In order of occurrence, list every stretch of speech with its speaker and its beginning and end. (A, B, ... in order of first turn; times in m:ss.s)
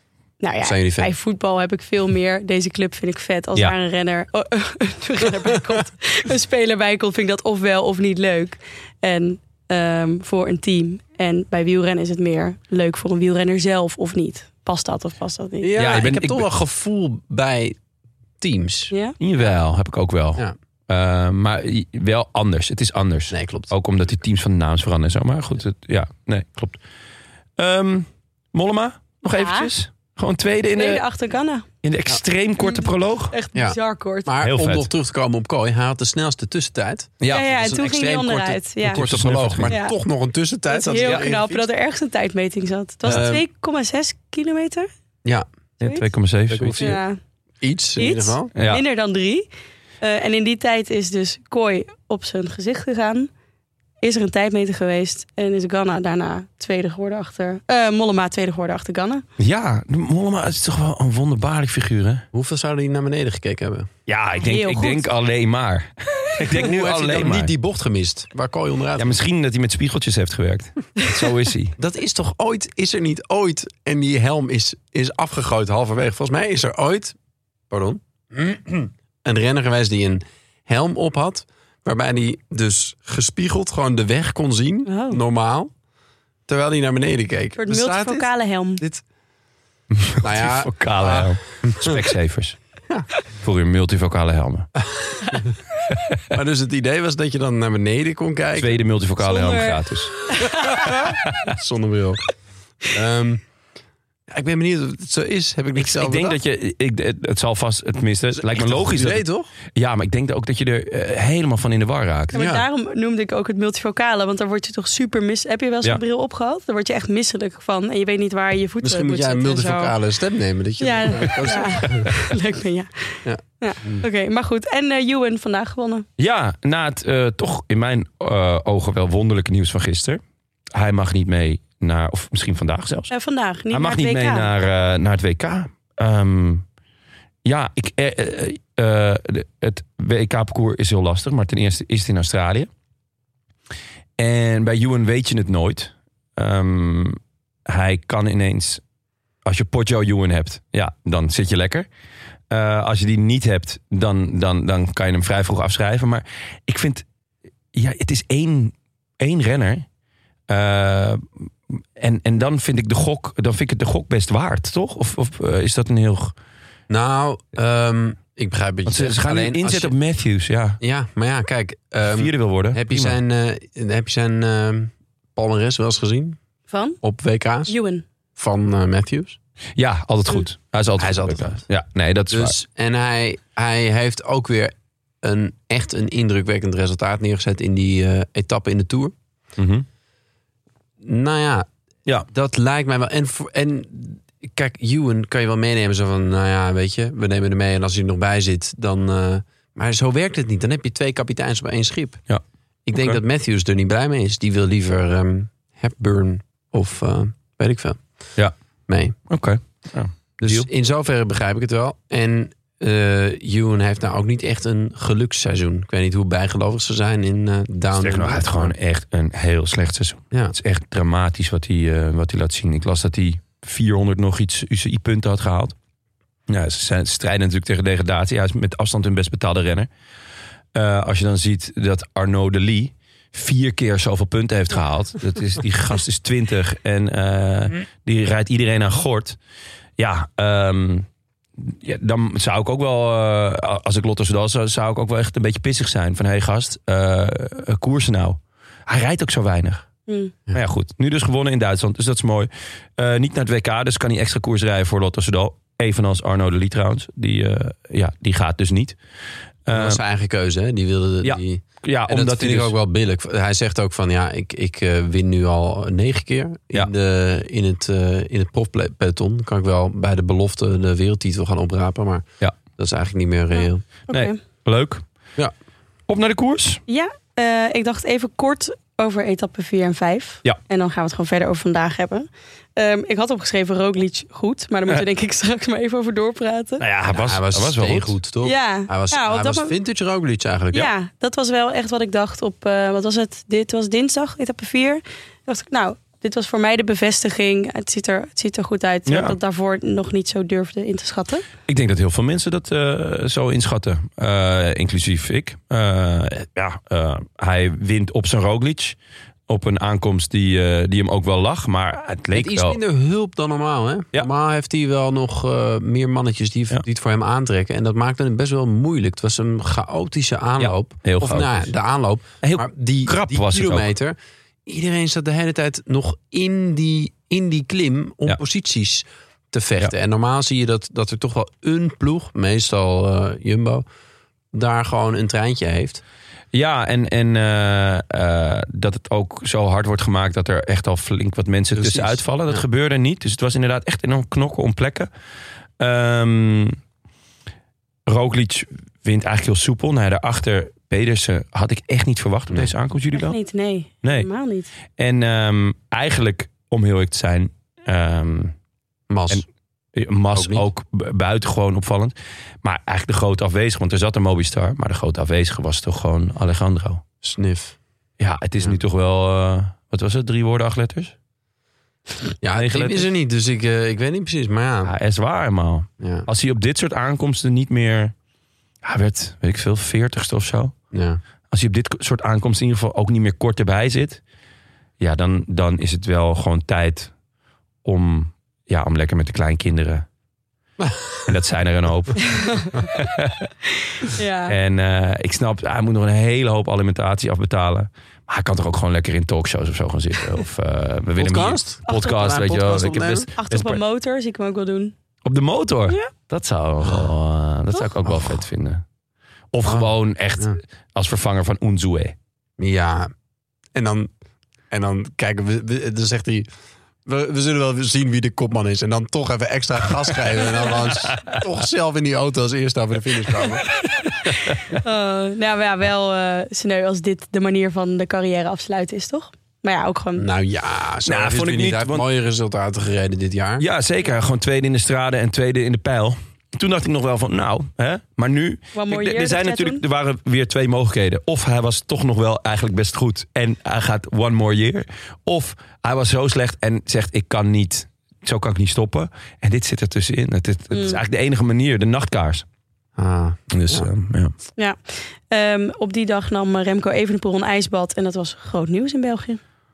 0:00.4-0:15.7 A
0:00.6-0:01.1 B
0:15.6-0:17.8 B
0:15.8-0:16.4 C
0:18.4-0:19.5 B
0:19.2-0:26.8 C
0:23.3-0:23.7 B
0:27.6-0:31.0 C
0:29.3-0:29.7 A
0:30.8-0:31.6 A
0:31.8-0:33.3 C
0:32.6-0:34.3 A
0:33.5-0:41.7 B
0:34.4-0:34.9 C
0:37.2-0:37.4 C
0:37.3-0:39.0 A
0:38.9-0:39.7 C
0:39.7-0:40.0 A
0:40.7-0:44.9 A
0:41.0-0:41.2 C
0:43.1-0:43.4 B
0:45.8-0:46.9 C
0:46.5-0:47.0 B
0:46.8-0:47.2 A
0:47.6-0:48.5 B
0:48.0-0:49.5 A
0:48.6-0:48.8 C
0:50.0-0:53.3 A
0:54.0-0:59.2 A
0:59.4-1:02.2 C
1:02.3-1:03.9 B
1:04.1-1:07.5 C
1:04.4-1:05.1 A
1:06.4-1:09.2 B
1:09.0-1:11.7 C
1:11.8-1:17.2 B
1:17.7-1:25.7 B
1:24.8-1:25.2 A
1:26.5-1:29.0 B
1:27.6-1:28.8 A
1:30.1-1:32.6 C
1:30.2-1:32.0 B
1:33.4-1:34.7 C
1:36.3-1:38.8 B
1:38.6-1:40.2 C
1:39.2-1:41.0 A
1:40.7-1:42.2 B
1:42.8-1:43.4 B
1:44.3-1:46.4 B
1:45.8-1:49.2 C
1:48.3-1:49.5 B
1:49.8-1:52.4 C
1:52.3-1:52.6 B
1:52.3-1:59.9 A
1:58.8-2:02.1 B
2:00.8-2:06.0 A
2:03.2-2:04.0 B
2:06.2-2:10.2 C
2:10.7-2:13.1 C
2:13.1-2:14.5 A
2:13.7-2:16.6 C
2:17.4-2:22.7 C
2:24.2-2:28.8 C
2:29.4-2:31.9 C
2:32.5-2:37.0 C
2:37.7-2:39.8 C
2:40.5-2:41.2 C
2:42.0-2:46.3 C
2:46.9-2:49.9 B
2:48.8-2:50.8 C
2:50.8-2:56.4 B
2:52.0-2:53.2 C
2:56.7-2:57.0 A
2:57.0-2:57.7 B
2:57.7-2:58.0 A
2:58.4-2:59.4 B
2:59.8-3:02.6 C
3:01.0-3:01.6 B
3:02.3-3:09.1 B
3:09.6-3:09.8 C
3:11.0-3:11.7 B
3:12.3-3:22.2 B
3:22.8-3:28.0 B
3:22.9-3:23.2 C
3:28.9-3:29.1 B
3:29.3-3:30.7 C
3:30.4-3:38.7 B
3:38.0-3:45.7 C
3:46.5-3:49.9 C
3:50.7-3:59.4 C
4:00.0-4:01.0 C
4:01.6-4:09.8 C
4:10.1-4:10.3 A
4:10.5-4:19.0 C
4:19.6-4:20.0 C
4:19.7-4:33.8 B
4:21.2-4:22.7 C
4:33.5-4:34.4 A
4:34.1-4:35.0 C
4:36.1-4:36.8 C
4:36.9-4:46.8 A
4:46.8-4:48.1 C
4:47.1-4:50.9 B
4:48.4-4:49.7 A
4:50.7-5:01.5 A
4:59.1-4:59.4 C
5:01.7-5:09.0 C
5:09.5-5:12.8 C
5:12.3-5:33.8 B
5:20.6-5:21.7 C
5:22.4-5:23.9 C
5:34.5-5:36.0 B
5:36.5-5:45.1 C
5:41.7-5:42.6 B
5:45.8-5:46.8 C
5:48.1-5:53.4 C
5:53.1-5:54.7 A
5:55.0-5:58.5 C
5:59.1-5:59.4 B
6:00.0-6:07.0 C
6:00.3-6:00.6 B
6:07.2-6:07.8 B
6:08.2-6:11.1 C
6:12.4-6:14.9 B
6:12.5-6:13.1 C
6:14.8-6:18.1 C
6:16.0-6:16.3 B
6:18.8-6:20.7 C
6:20.9-6:21.2 B
6:21.5-6:24.2 C
6:25.0-6:27.1 C
6:27.8-6:30.0 C
6:31.2-6:33.5 C
6:32.2-6:32.7 A
6:34.0-6:34.5 A
6:34.5-6:43.8 C
6:41.2-6:43.3 B
6:41.9-6:42.2 A
6:43.4-6:44.9 A
6:45.2-6:48.8 C
6:48.1-6:48.4 B
6:49.5-6:52.1 C
6:49.6-6:50.6 B
6:52.6-6:53.1 B
6:53.7-6:54.1 B
6:54.7-6:56.5 B
6:57.0-7:03.7 B
7:01.1-7:01.4 C
7:04.7-7:10.3 A
7:10.2-7:13.6 B
7:11.0-7:12.0 C
7:13.6-7:32.4 C
7:18.7-7:19.8 A
7:30.7-7:31.0 A
7:33.0-7:33.9 B
7:33.5-7:34.3 C
7:34.6-7:39.4 A